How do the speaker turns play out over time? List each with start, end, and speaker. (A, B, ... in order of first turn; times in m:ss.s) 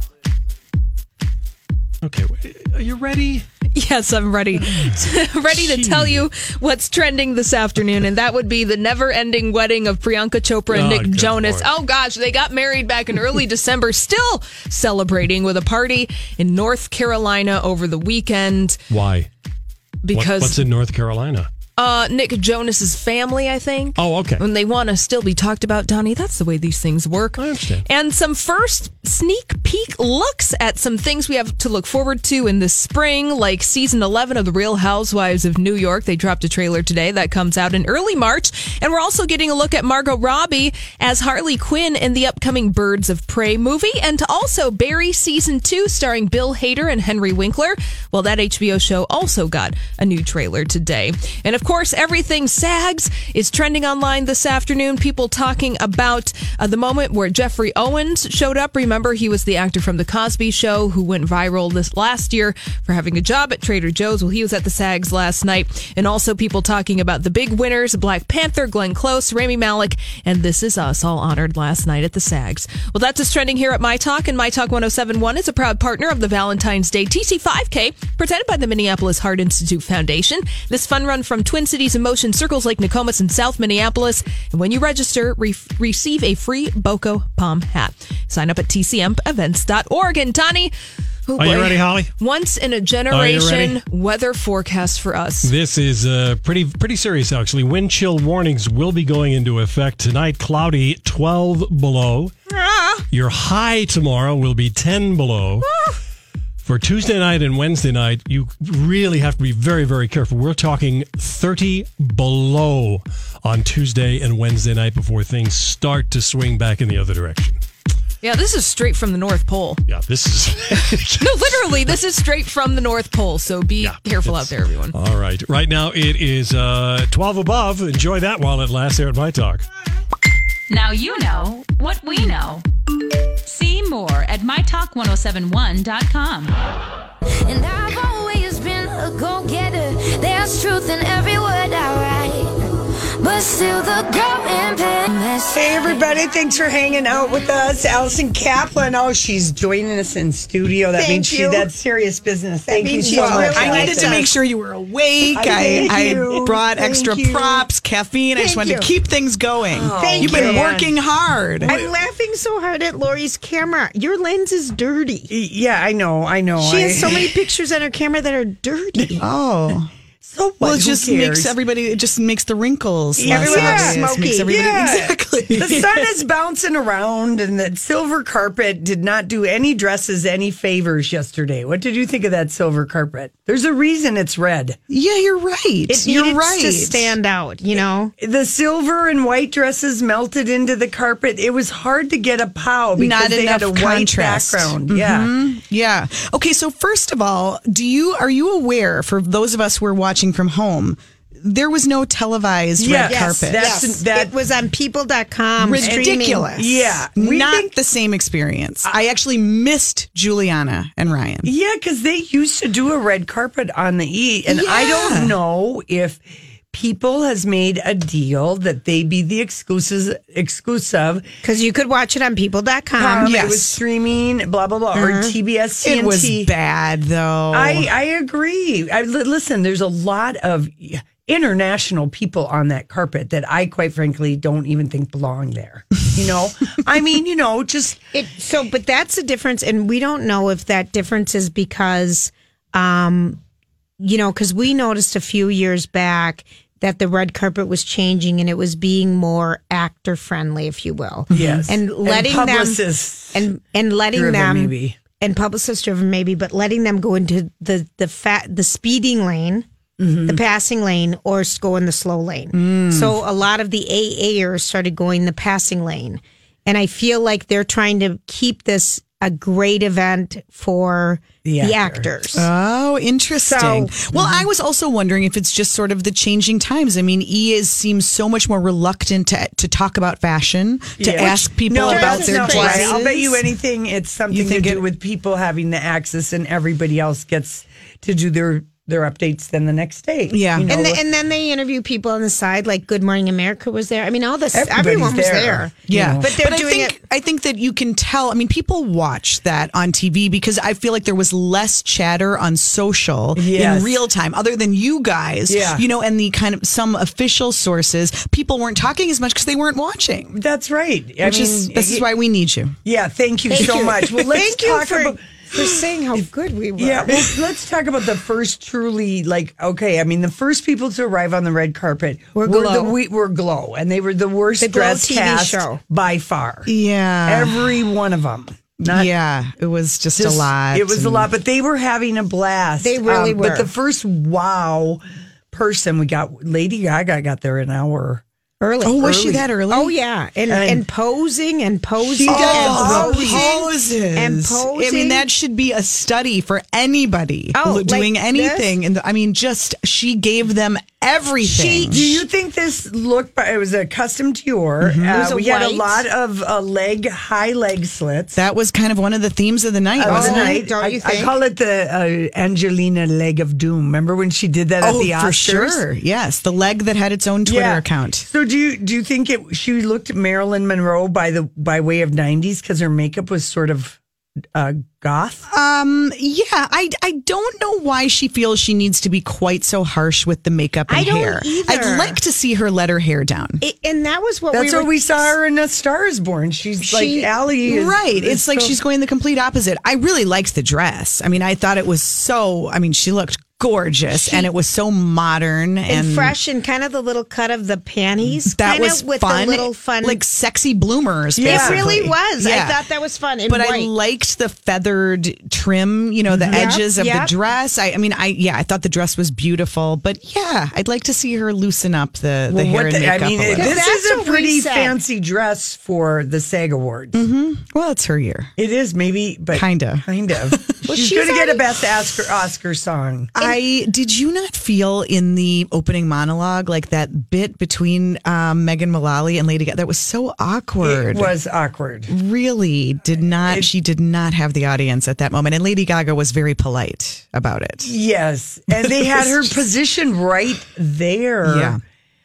0:02.0-0:03.4 A
0:03.7-0:18.8 B
0:04.6-0:06.2 A
0:10.7-0:11.7 A
0:18.9-0:19.3 A
0:20.0-0:20.6 B
0:20.1-0:21.5 A
0:21.8-1:30.7 B
0:24.0-0:24.4 A
0:27.4-0:27.8 A
1:31.3-1:35.5 B
1:31.3-1:32.1 A
1:33.1-1:33.8 A
1:35.4-1:42.3 A
1:42.5-1:43.0 C
1:43.1-1:45.7 A
1:46.6-1:57.6 A
1:58.2-1:59.8 B
1:59.9-2:01.9 A
2:01.1-2:04.9 B
2:03.8-2:09.6 A
2:10.7-2:12.6 D
2:13.4-2:16.5 D
2:17.5-2:22.5 E
2:23.2-2:26.0 E
2:25.5-2:34.3 F
2:30.9-2:31.7 C
2:32.7-2:34.3 C
2:33.0-2:41.7 G
2:35.3-2:37.6 F
2:38.4-2:38.9 C
2:39.7-2:41.0 F
2:39.9-2:40.8 C
2:41.6-2:41.9 F
2:41.6-2:45.3 C
2:45.3-2:47.4 F
2:46.6-2:49.2 C
2:49.2-2:49.9 G
2:50.2-2:51.5 F
2:50.6-2:56.1 G
2:53.2-3:04.8 F
2:53.2-2:54.7 C
3:04.9-3:07.2 G
3:05.9-3:08.1 C
3:08.2-3:15.3 F
3:13.0-3:23.8 G
3:22.8-3:24.3 F
3:23.0-3:26.5 C
3:25.6-3:31.5 G
3:25.8-3:27.7 F
3:31.4-3:36.2 F
3:34.5-3:35.4 G
3:36.7-3:41.3 F
3:41.4-3:43.5 C
3:43.0-3:46.5 F
3:43.2-3:43.8 G
3:44.9-3:45.3 C
3:45.8-3:47.9 G
3:47.5-3:58.0 F
3:58.1-4:03.4 C
4:04.0-4:12.8 C
4:11.3-4:13.5 F
4:11.3-4:11.6 G
4:13.3-4:19.6 C
4:14.1-4:15.0 F
4:20.0-4:20.4 F
4:20.2-4:32.5 C
4:22.5-4:23.2 G
4:31.4-4:32.1 F
4:32.3-4:43.0 G
4:33.4-4:34.0 C
4:34.1-4:34.4 F
4:41.0-4:51.0 F
4:41.2-4:43.4 C
4:44.3-4:44.8 G
4:50.3-4:50.7 G
4:50.7-4:57.0 C
4:54.5-4:56.3 F
4:55.9-5:10.4 G
5:03.4-5:04.0 F
5:05.5-5:05.8 F
5:10.3-5:12.0 F
5:11.2-5:12.7 G
5:12.8-5:15.2 F
5:13.5-5:17.3 C
5:13.6-5:14.1 G
5:16.8-5:26.7 F
5:22.4-5:22.9 C
5:24.6-5:25.8 C
5:26.7-5:27.8 G
5:27.3-5:29.1 F
5:28.8-5:31.3 G
5:30.1-5:38.2 F
5:32.8-5:33.7 C
5:38.6-5:45.2 C
5:38.8-5:40.0 G
5:39.0-5:39.4 F
5:40.5-5:40.8 F
5:42.0-5:43.6 F
5:42.2-5:52.1 G
5:47.6-5:48.7 C
5:51.4-5:52.2 C
5:51.9-5:58.4 F
5:54.8-5:55.1 G
5:55.1-5:56.0 C
5:58.4-6:00.6 G
6:00.0-6:05.8 F
6:00.0-6:01.3 C
6:04.8-6:08.3 G
6:07.4-6:14.0 F
6:14.5-6:15.4 F
6:15.5-6:23.6 G
6:20.9-6:22.2 C
6:23.6-6:25.3 C
6:24.5-6:28.8 F
6:26.8-6:27.3 C
6:27.6-6:36.3 G
6:34.1-6:34.5 C
6:35.9-6:40.2 C
6:38.4-6:42.8 G
6:41.4-6:41.9 F
6:41.4-6:43.9 C
6:43.4-6:53.9 G
6:46.3-6:46.8 F
6:46.5-6:47.3 C
6:52.5-6:57.2 F
6:53.6-6:54.9 C
6:57.1-6:58.5 G
6:58.6-7:03.3 F
6:59.5-7:00.8 G
7:00.9-7:01.6 C
7:03.3-7:11.3 G
7:10.8-7:12.1 F
7:12.1-7:17.9 G
7:17.8-7:21.7 F
7:18.7-7:19.5 G
7:21.4-7:21.8 G